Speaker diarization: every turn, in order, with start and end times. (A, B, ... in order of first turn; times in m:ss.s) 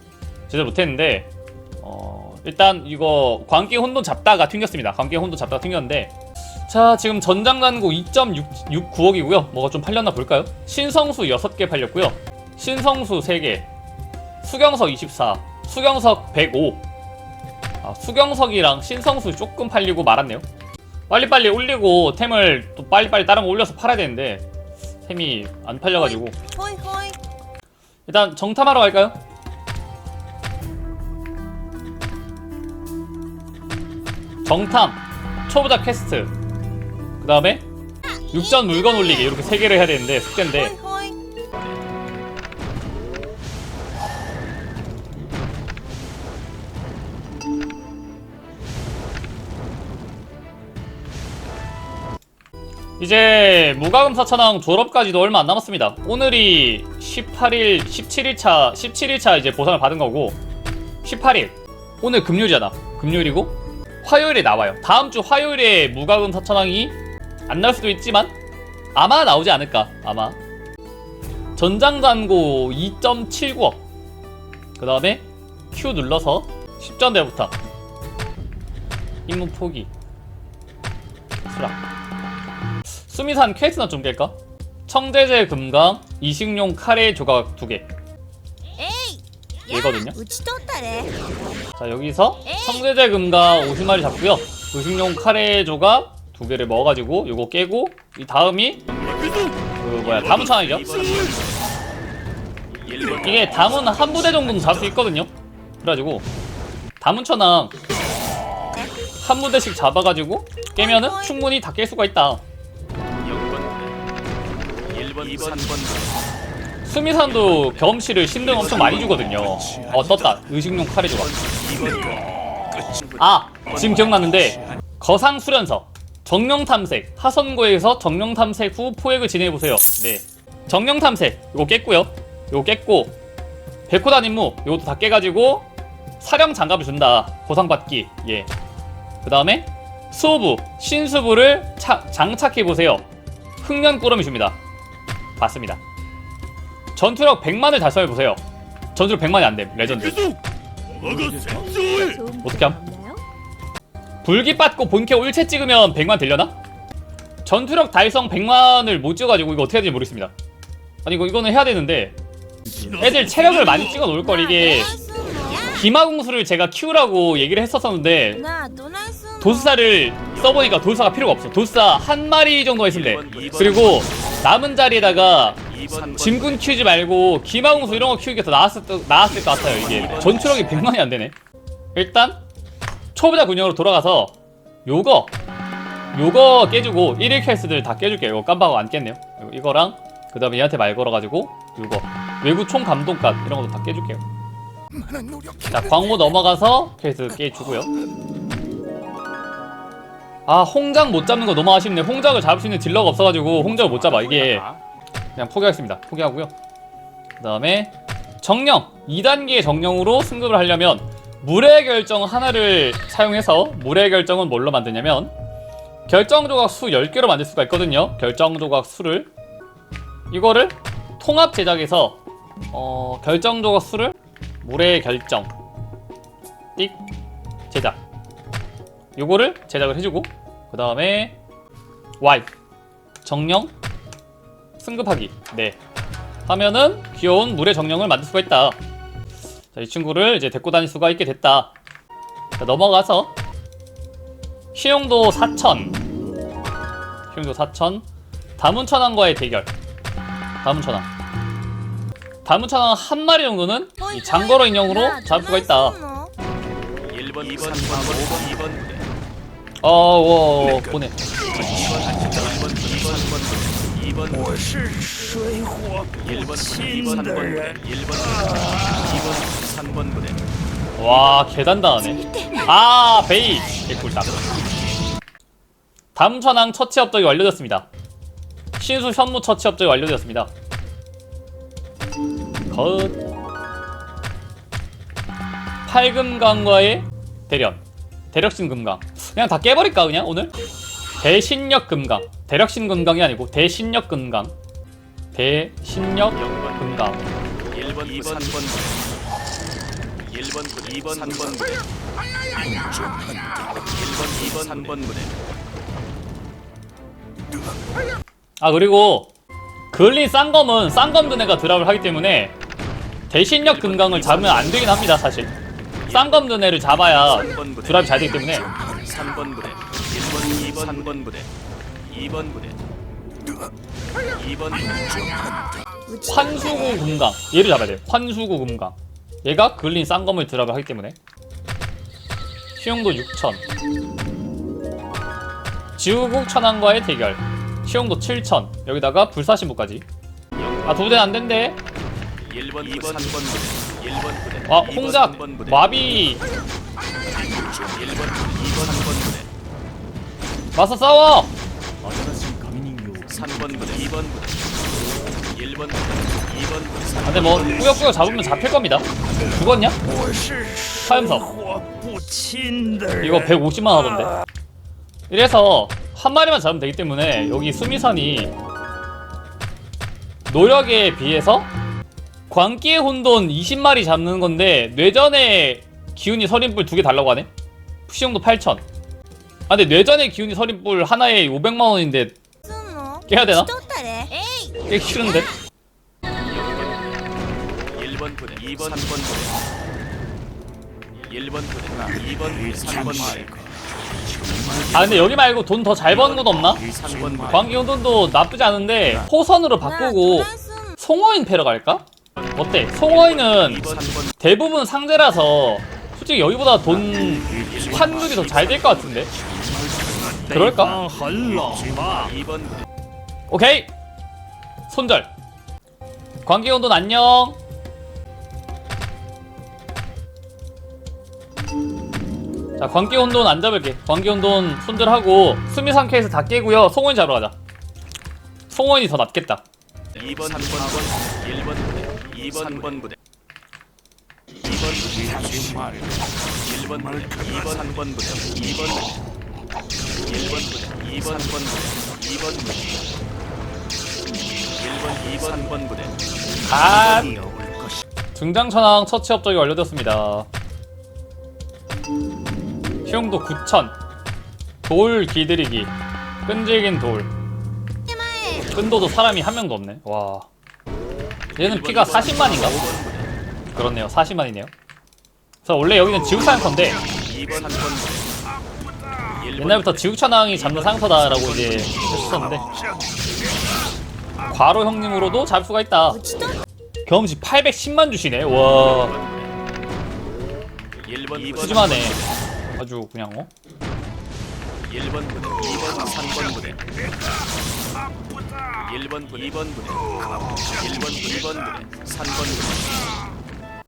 0:00.5-0:01.3 A
0:01.8-0:06.1 A
0:06.7-0:13.6 A
0:14.4-0:16.8 A
0:17.8-0:20.4 A
0:21.1-0:24.4 A
0:25.0-0:26.4 A
0:26.5-0:27.2 B
0:28.1-0:29.2 A
0:34.4-0:36.3 A
0:37.2-0:37.6 A
0:38.3-0:40.8 A
0:40.6-0:41.2 B
0:53.0-1:00.4 A
1:01.0-1:07.0 A
1:07.5-1:08.3 A
1:08.9-1:10.4 A
1:11.6-1:13.8 A
1:14.8-1:17.5 A
1:19.3-1:19.9 A
1:21.4-1:21.8 A
1:23.1-1:24.3 A
1:24.9-1:27.9 A
1:28.8-1:29.2 B
1:29.7-1:30.2 A
1:30.0-1:31.2 B
1:31.8-1:38.9 A
1:39.8-1:41.4 A
1:43.0-1:46.3 A
1:47.0-1:47.7 A
1:49.2-1:52.4 A
1:50.8-1:51.1 B
1:55.1-1:55.7 C
1:56.8-2:02.1 A
2:03.2-2:13.2 A
2:13.9-2:15.7 A
2:16.2-2:18.5 A
2:19.2-2:23.0 A
2:23.6-2:24.6 A
2:25.4-2:25.8 A
2:26.9-2:28.4 A
2:28.9-2:30.3 A
2:31.0-2:31.9 C
2:31.9-2:33.2 B
2:32.4-2:32.8 A
2:34.2-2:36.5 A
2:37.4-2:40.3 A
2:41.0-2:42.2 A
2:43.0-2:45.0 A
2:44.2-2:45.7 B
2:45.6-2:48.4 A
2:48.4-2:49.7 B
2:49.4-3:01.3 A
3:01.9-3:02.4 A
3:03.1-3:04.3 A
3:04.8-3:05.3 A
3:06.1-3:14.2 A
3:15.2-3:15.6 C
3:15.7-3:17.9 A
3:20.4-3:24.7 A
3:25.4-3:26.5 A
3:27.4-3:35.3 A
3:36.1-3:39.3 A
3:40.3-3:42.2 A
3:42.7-3:45.5 A
3:46.8-3:47.0 A
3:47.7-3:48.0 A
3:49.2-3:51.4 A
3:52.2-3:52.5 A
3:53.2-3:53.7 A
3:54.8-3:55.8 A
3:56.4-3:58.8 A
3:59.7-4:01.7 A
4:02.6-4:03.3 A
4:04.7-4:06.0 A
4:07.3-4:08.0 A
4:08.6-4:09.7 A
4:10.6-4:11.1 A
4:12.4-4:16.0 A
4:14.0-4:16.3 B
4:17.3-4:18.7 C
4:19.8-4:21.2 A
4:21.8-4:23.4 C
4:24.2-4:29.5 C
4:31.0-4:34.4 A
4:36.1-4:37.9 A
4:38.8-4:40.5 A
4:42.7-4:43.2 A
4:45.8-4:50.6 A
4:51.2-4:54.5 A
4:55.3-4:57.3 A
4:58.0-4:58.5 C
5:00.8-5:01.5 C
5:02.6-5:05.1 C
5:08.6-5:09.3 A
5:09.9-5:12.5 A
5:13.3-5:15.5 A
5:16.1-5:18.7 A
5:18.8-5:19.7 C
5:20.3-5:21.1 C
5:24.5-5:25.7 C
5:26.1-5:26.7 B
5:26.2-5:31.2 A
5:32.8-5:33.6 A
5:36.0-5:40.0 A
5:40.8-5:41.8 A
5:42.7-5:43.5 C
5:44.6-5:46.4 A
5:47.5-5:49.3 C
5:50.7-5:51.5 A
5:52.0-5:54.3 C
5:57.2-6:00.0 A
6:00.1-6:03.2 C
6:01.0-6:01.5 A
6:03.2-6:04.3 A
6:05.3-6:08.5 A
6:10.5-6:11.7 A
6:12.5-6:17.5 A
6:18.1-6:18.8 A
6:19.7-6:22.3 A
6:22.7-6:24.8 B
6:23.3-6:23.7 A
6:24.8-6:25.5 A
6:28.5-6:29.2 C
6:31.9-6:33.7 C
6:34.3-6:34.9 C
6:34.9-6:49.3 A
6:37.0-6:37.4 C
6:40.1-6:40.9 B
6:49.6-6:52.4 C
6:50.5-6:51.0 A
6:53.5-6:53.9 A
6:54.9-6:55.3 A
6:56.4-6:57.6 A
7:02.8-7:07.6 A
7:08.7-7:09.6 A
7:10.2-7:11.1 C
7:12.4-7:12.7 C
7:14.8-7:19.0 C
7:20.3-7:21.6 C
7:25.2-7:25.7 C
7:26.6-7:27.4 A
7:27.4-7:27.9 C
7:28.3-7:30.5 A
7:33.0-7:33.9 A
7:34.8-7:35.9 A
7:36.4-7:37.3 A
7:38.1-7:38.6 B
7:38.6-7:40.5 A
7:41.6-7:42.9 A
7:43.7-7:44.7 A
7:45.6-7:47.0 A
7:47.4-7:48.0 C
7:49.4-7:52.7 A
7:54.5-7:56.4 A
7:56.3-7:56.6 B
7:57.0-7:59.2 A
8:01.4-8:02.2 A
8:02.8-8:03.5 A
8:05.4-8:06.7 C
8:08.7-8:09.7 C
8:10.6-8:11.8 C